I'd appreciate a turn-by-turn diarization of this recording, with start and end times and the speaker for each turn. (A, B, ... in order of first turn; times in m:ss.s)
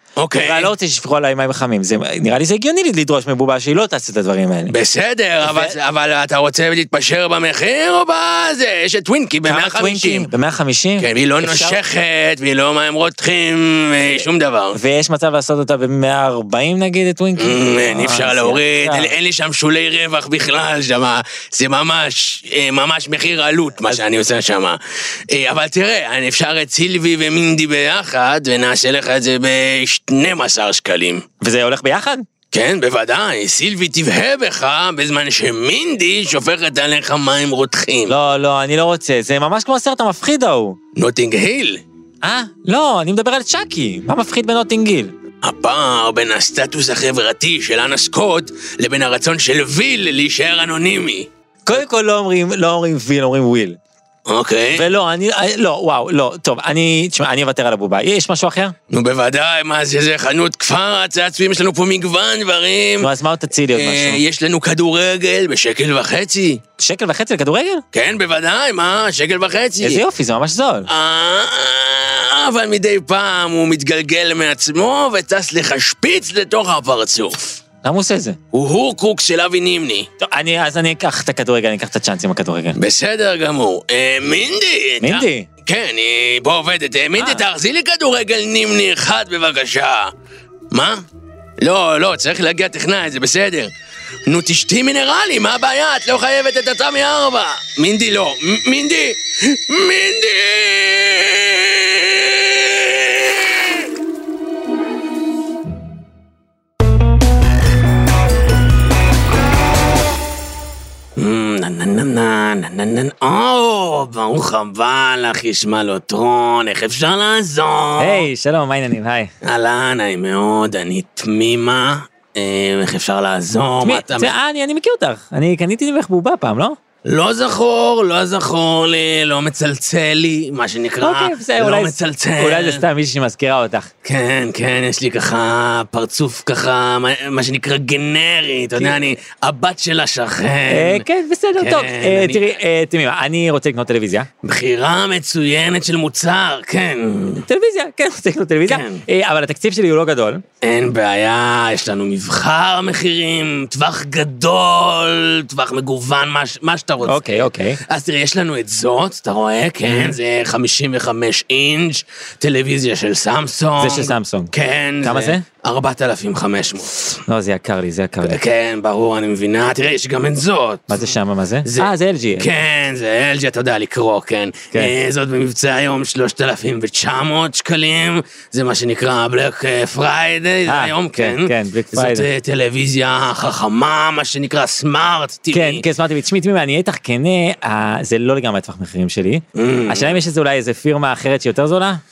0:00.2-0:00.7 A
0:00.4-0:04.8 B
0:04.7-0:10.3 A
0:05.4-0:05.8 B
0:09.4-0:11.8 B
0:11.0-0:14.8 A
0:14.7-0:19.1 B
0:17.4-0:31.2 A
0:31.4-0:32.3 B
0:32.5-0:38.2 A
0:38.1-0:40.8 B
0:41.0-0:41.8 A
0:42.2-0:45.2 B
0:45.4-0:51.8 A
0:51.7-0:53.8 B
0:54.3-0:54.9 A
0:54.7-0:58.8 B
0:58.9-1:03.1 A
1:03.0-1:04.2 B
1:03.7-1:06.6 A
1:06.8-1:07.8 B
1:07.9-1:10.0 A
1:09.8-1:10.9 B
1:10.9-1:17.6 A
1:17.8-1:18.4 B
1:18.5-1:20.1 A
1:20.2-1:22.8 B
1:22.8-1:30.1 A
1:25.0-1:25.5 B
1:27.2-1:27.4 B
1:30.7-1:31.0 A
1:31.6-1:33.7 A
1:34.3-1:43.9 A
1:51.2-1:58.3 A
1:58.0-1:59.3 B
1:59.4-2:04.3 A
2:03.8-2:06.8 B
2:07.0-2:12.8 A
2:11.0-2:13.9 B
2:14.0-2:21.1 A
2:18.8-2:19.2 B
2:20.7-2:24.3 B
2:21.6-2:22.6 A
2:24.4-2:27.5 A
2:27.5-2:30.4 B
2:28.7-2:29.0 A
2:30.6-2:47.2 A
2:37.0-2:37.8 B
2:39.9-2:40.2 B
2:43.8-2:44.5 B
2:45.0-2:45.4 B
2:47.3-2:48.4 B
2:48.2-2:51.1 A
2:50.9-2:52.5 B
2:51.6-3:05.8 A
3:00.7-3:02.3 B
3:05.5-3:12.0 B
3:09.6-3:10.2 A